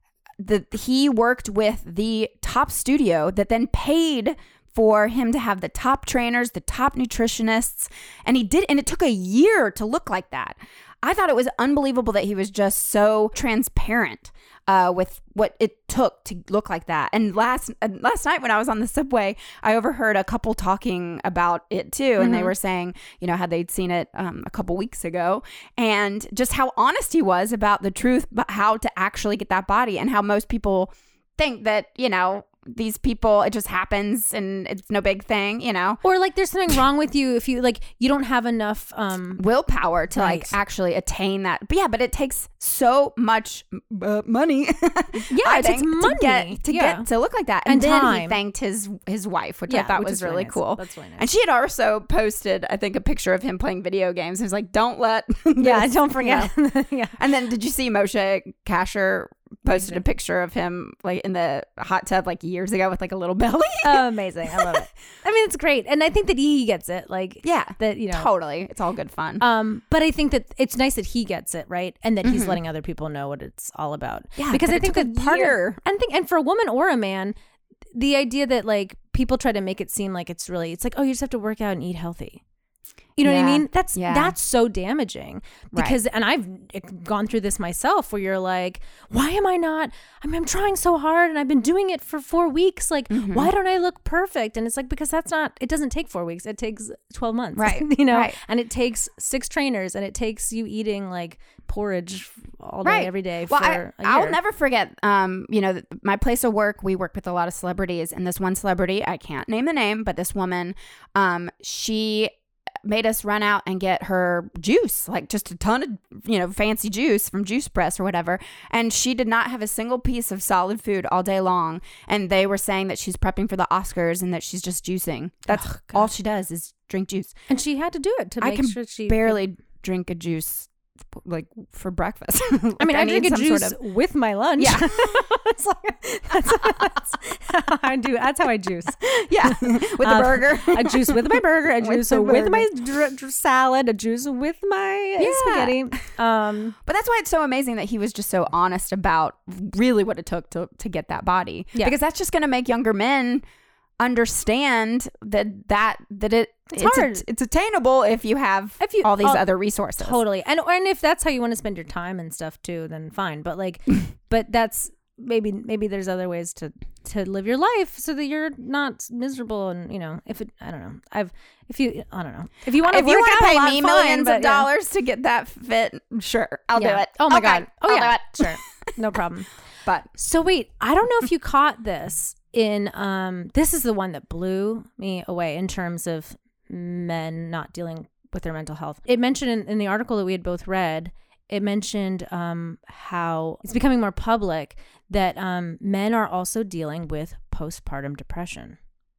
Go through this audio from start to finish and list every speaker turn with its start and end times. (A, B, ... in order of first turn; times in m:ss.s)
0:00.4-0:36.0 A
0:22.2-0:22.5 B
0:36.0-0:39.4 B
0:39.4-0:56.5 A
0:40.2-0:40.6 B
0:45.3-0:47.1 B
0:47.6-0:48.4 B
0:49.7-0:51.3 B
0:55.6-0:57.2 B
0:57.2-1:04.9 A
0:59.7-1:00.0 B
1:03.8-1:08.3 B
1:07.4-1:09.4 A
1:09.4-1:17.4 B
1:12.2-1:12.6 A
1:14.4-1:15.8 A
1:17.9-1:22.4 B
1:23.2-1:44.4 B
1:23.2-1:24.3 A
1:25.7-1:26.0 A
1:33.1-1:33.5 A
1:37.6-1:38.4 A
1:42.8-1:52.3 A
1:52.8-2:07.3 A
2:05.5-2:06.1 B
2:07.5-2:09.4 B
2:08.4-2:13.8 A
2:12.8-2:26.8 B
2:14.6-2:15.2 A
2:19.0-2:22.7 A
2:25.2-2:25.9 A
2:26.8-2:33.4 A
2:34.0-2:40.2 A
2:36.7-2:37.2 B
2:38.8-2:39.4 B
2:40.0-2:54.7 B
2:52.8-2:58.9 A
2:56.8-2:59.5 B
3:00.2-3:18.8 B